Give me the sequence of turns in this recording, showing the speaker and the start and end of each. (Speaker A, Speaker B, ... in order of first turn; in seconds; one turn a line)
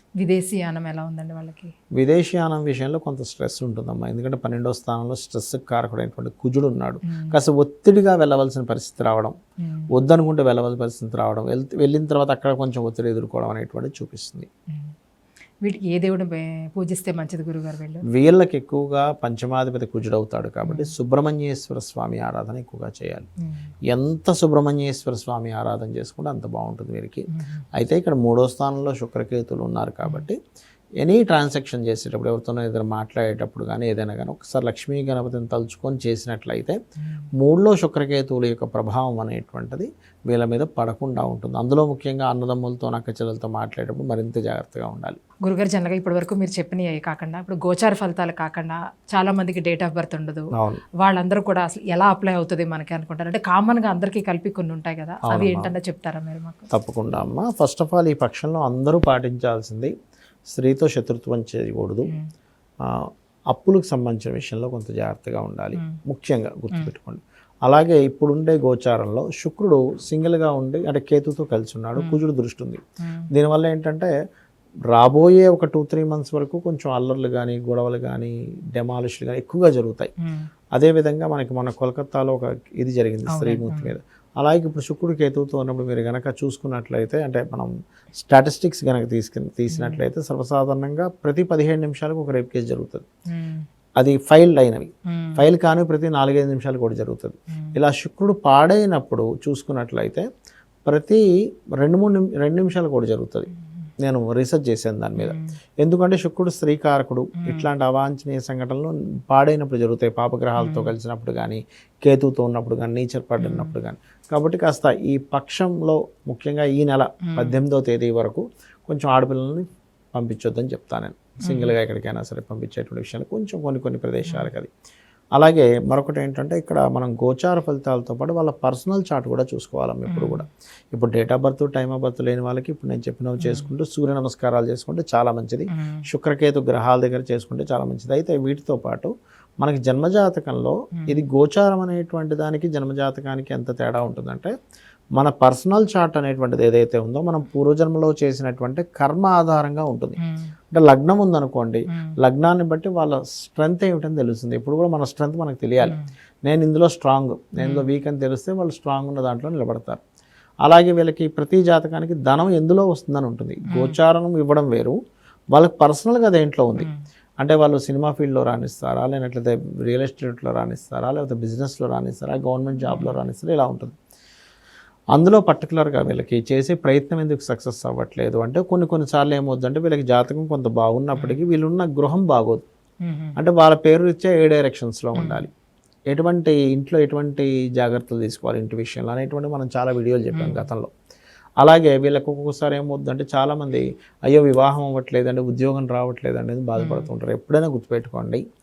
Speaker A: 0.2-1.7
Speaker B: 1.9-9.3
Speaker A: 7.1-7.3
Speaker A: 9.6-9.9
Speaker B: 9.9-14.5
Speaker A: 15.6-18.0
Speaker B: 18.1-23.3
Speaker A: 20.6-20.9
Speaker A: 23.4-23.7
Speaker B: 23.9-30.4
Speaker A: 27.3-27.6
Speaker B: 31.0-36.8
Speaker A: 37.0-37.3
Speaker B: 37.4-45.2
Speaker A: 45.4-56.7
Speaker B: 50.5-50.8
Speaker B: 55.3-55.7
Speaker B: 56.7-59.9
Speaker B: 60.5-62.1
Speaker B: 62.8-72.8
Speaker A: 72.0-72.2
Speaker A: 73.0-73.3
Speaker B: 73.3-74.1
Speaker B: 74.9-80.1
Speaker B: 80.8-93.0
Speaker A: 83.3-83.9
Speaker A: 89.7-90.0
Speaker A: 93.3-93.7
Speaker B: 94.0-100.3
Speaker A: 95.1-95.4
Speaker B: 100.8-101.2
Speaker B: 101.8-103.5
Speaker A: 103.6-103.9
Speaker B: 104.0-124.7
Speaker A: 105.2-105.4
Speaker A: 107.4-107.7
Speaker A: 110.6-110.9
Speaker A: 113.4-113.8
Speaker A: 117.2-117.5
Speaker A: 121.4-121.7
Speaker B: 125.3-144.5
Speaker A: 130.1-130.4
Speaker A: 133.4-133.7
Speaker A: 135.7-136.0
Speaker A: 141.0-141.2
Speaker B: 145.2-150.2
Speaker A: 150.2-150.5
Speaker B: 150.7-160.0
Speaker A: 151.9-152.2
Speaker A: 157.6-157.8
Speaker B: 160.6-165.0
Speaker A: 163.7-163.9
Speaker B: 165.5-166.9
Speaker B: 167.4-173.9
Speaker A: 172.8-173.2
Speaker B: 175.1-182.6
Speaker A: 183.0-183.3
Speaker B: 183.4-185.5
Speaker A: 185.1-185.5
Speaker B: 186.1-190.9
Speaker A: 190.3-190.7
Speaker B: 191.6-198.4
Speaker A: 196.8-197.1